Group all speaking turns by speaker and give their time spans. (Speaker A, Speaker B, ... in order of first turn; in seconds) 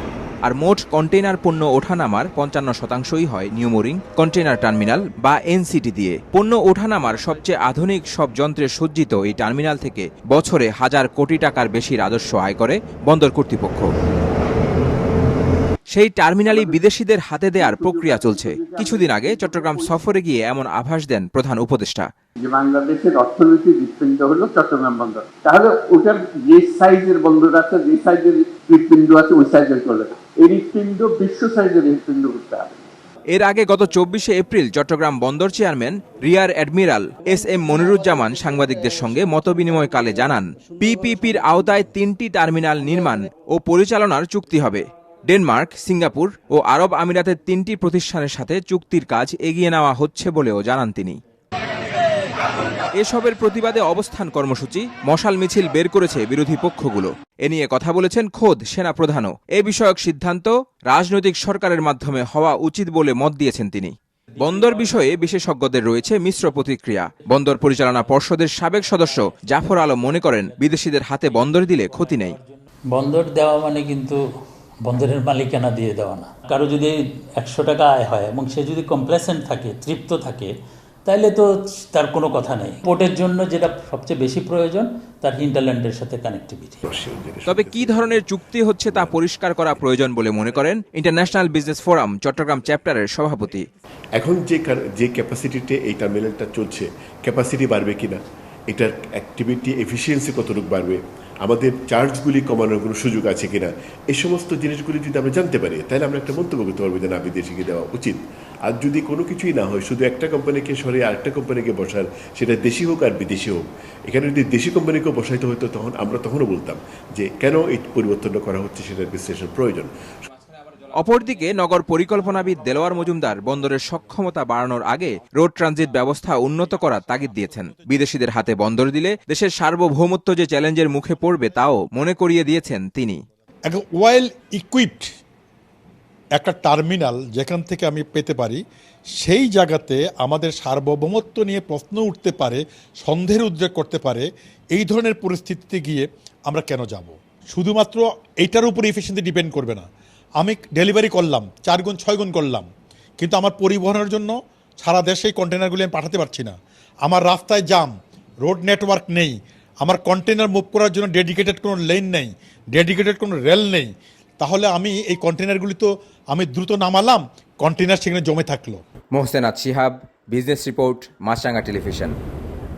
Speaker A: 0.4-13.9, 15.9-22.1, 33.3-51.2, 53.0-72.4, 87.5-93.7, 121.0-133.2
Speaker B: 16.5-16.8, 17.5-20.0, 22.4-32.8
Speaker C: 73.0-74.2, 74.9-80.5, 81.1-86.7
Speaker D: 86.9-90.1, 94.2-98.2, 98.7-119.9
Speaker E: 133.7-135.1, 136.4-138.6, 139.2-149.9, 150.4-152.7, 153.2-157.9, 158.4-168.8